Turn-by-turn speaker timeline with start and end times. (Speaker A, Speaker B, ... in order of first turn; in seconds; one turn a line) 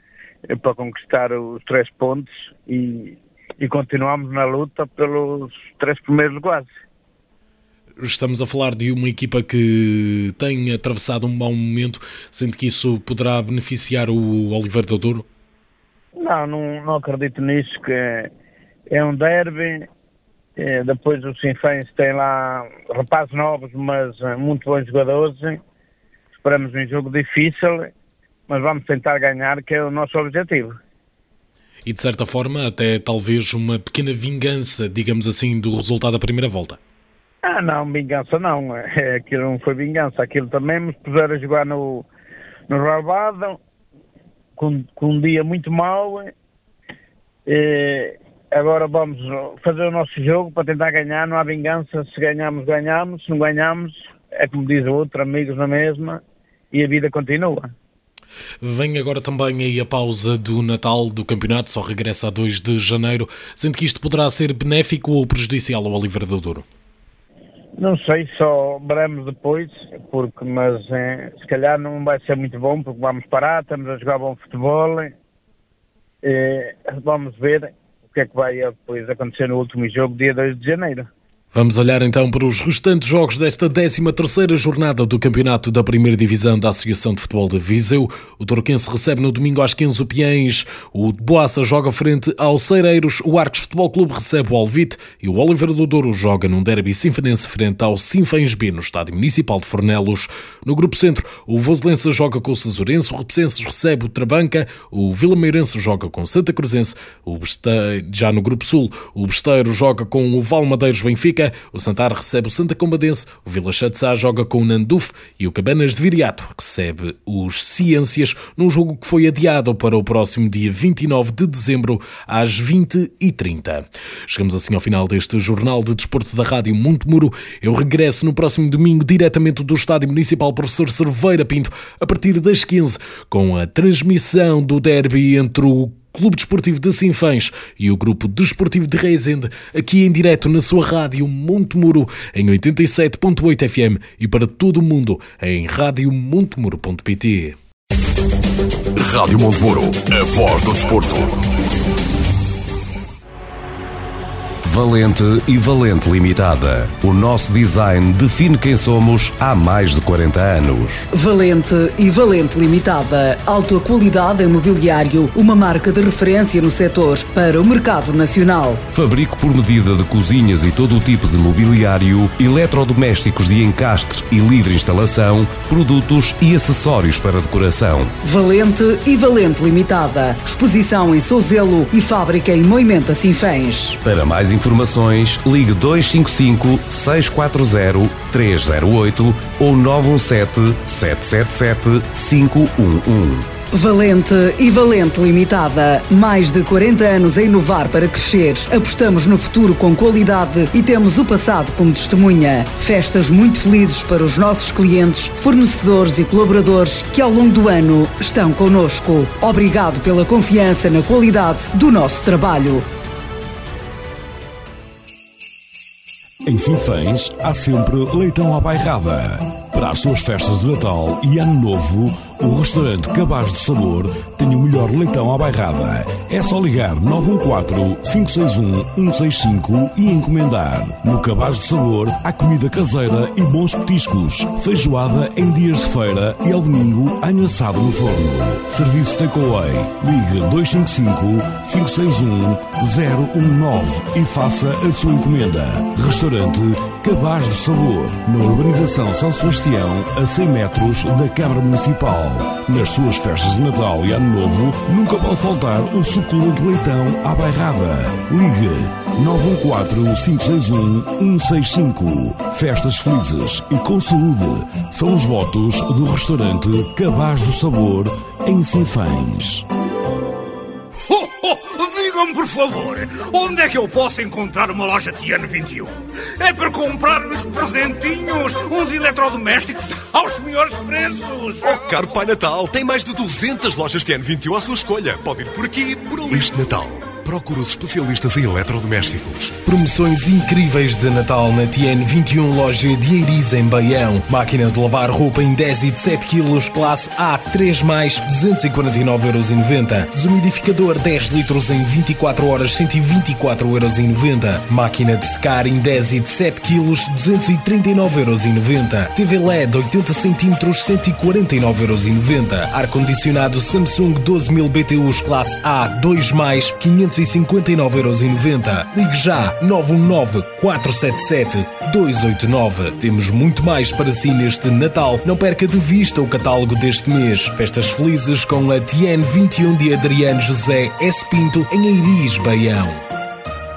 Speaker A: 0.5-6.7
Speaker B: 8.0-15.2
Speaker A: 16.2-18.3
Speaker A: 18.9-19.9
Speaker A: 20.6-25.6
Speaker A: 26.4-27.9
Speaker A: 28.5-30.8
Speaker B: 31.9-36.8
Speaker A: 37.4-42.1
Speaker A: 42.7-43.6
Speaker A: 44.5-46.3
Speaker A: 47.5-57.7
Speaker B: 58.6-66.6
Speaker A: 67.8-75.1
Speaker A: 76.2-81.1
Speaker B: 81.5-147.6
Speaker C: 149.0-151.2
Speaker C: 154.6-161.0
Speaker D: 161.1-168.8
Speaker C: 168.9-178.1
Speaker D: 178.2-184.0
Speaker C: 184.0-193.5
Speaker D: 193.7-212.9
Speaker E: 216.4-269.6
Speaker F: 271.0-281.8
Speaker G: 281.6-289.6
Speaker B: 289.6-333.0